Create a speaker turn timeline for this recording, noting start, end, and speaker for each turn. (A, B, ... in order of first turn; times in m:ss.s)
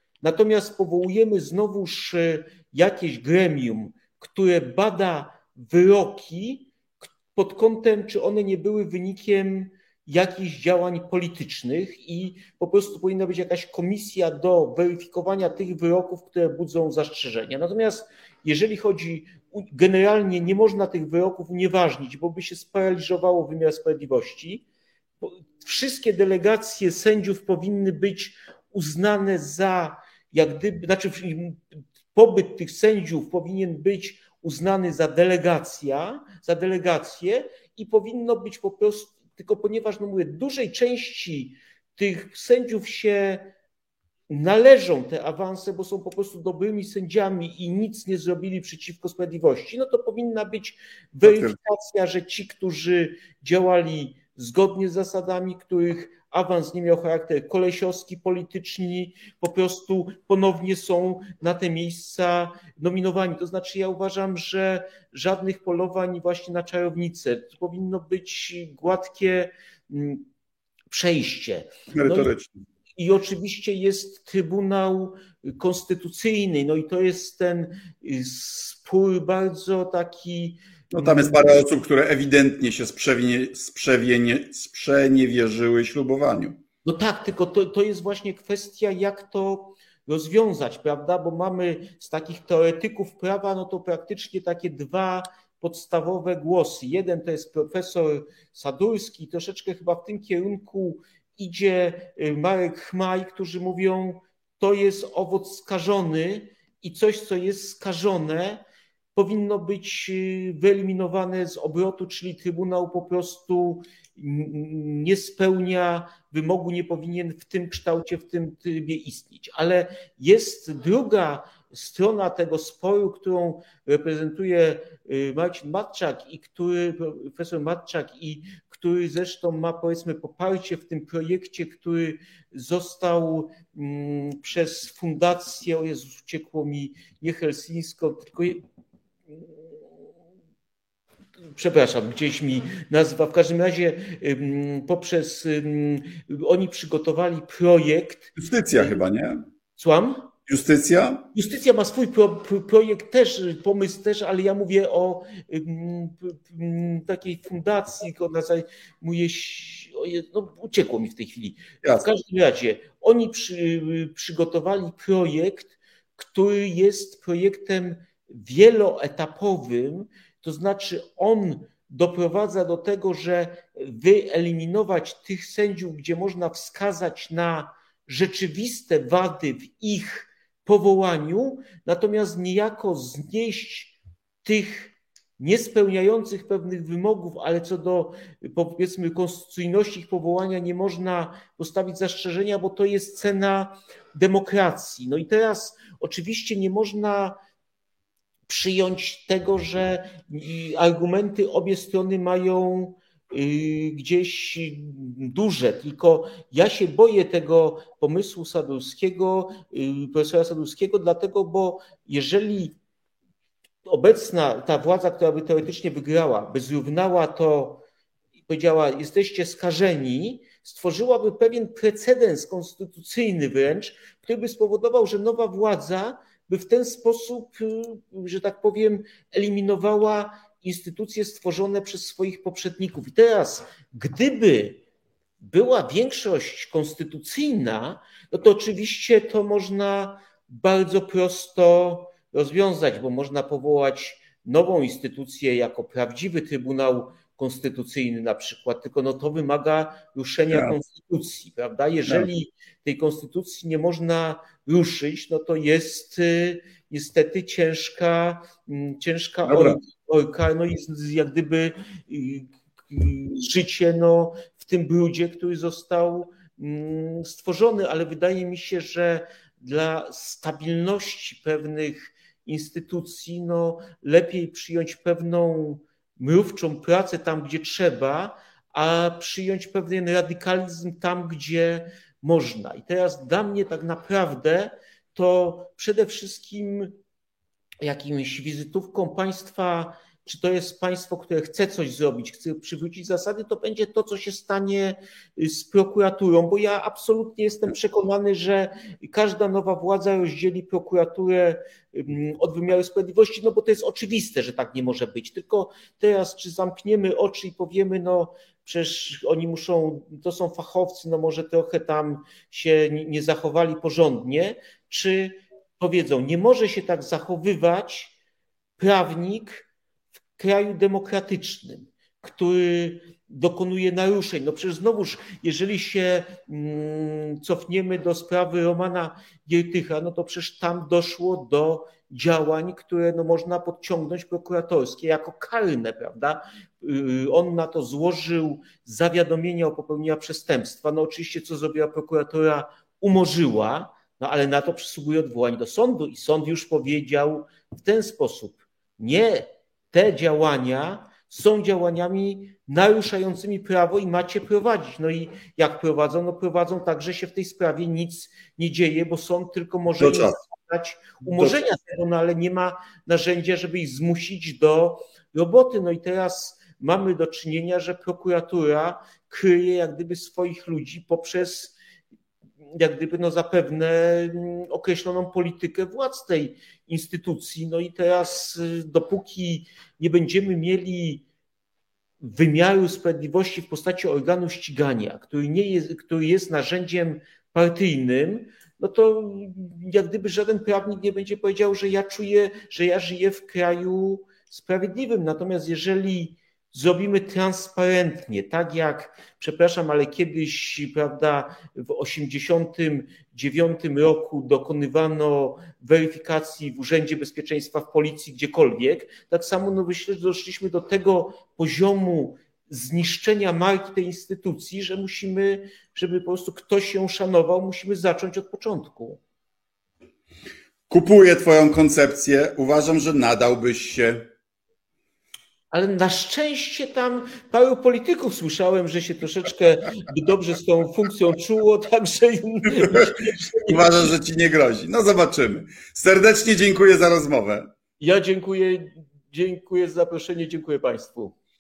0:00.2-0:06.7 A
0:07.3-0:24.6 A
0:25.2-0:43.5 A
0:44.3-1:10.2 A
0:51.2-0:51.6 B
1:10.9-1:12.3 A
1:11.9-1:12.6 B
1:13.0-1:21.5 A
1:20.9-1:26.6 B
1:26.8-1:48.6 A
1:49.2-2:18.6 A
2:19.3-2:19.8 A
2:21.5-2:29.0 A
2:28.4-2:29.4 B
2:29.8-2:30.3 A
2:30.5-2:31.3 B
2:31.3-3:17.4 A
2:41.8-2:42.1 B
3:18.5-3:32.7 A
3:33.8-3:37.8 A
3:38.5-3:54.8 A
3:55.4-4:46.9 A
4:10.5-4:10.8 B
4:12.1-4:12.3 B
4:19.4-4:19.8 B
4:47.8-5:18.1 A
5:18.8-5:19.7 A
5:20.4-6:11.8 A
6:00.0-6:00.4 B
6:01.2-6:01.5 B
6:12.7-6:21.2 A
6:22.2-6:59.2 A
7:00.9-7:04.3 B
7:05.7-7:14.1 A
7:12.8-7:17.7 B
7:18.0-7:21.3 A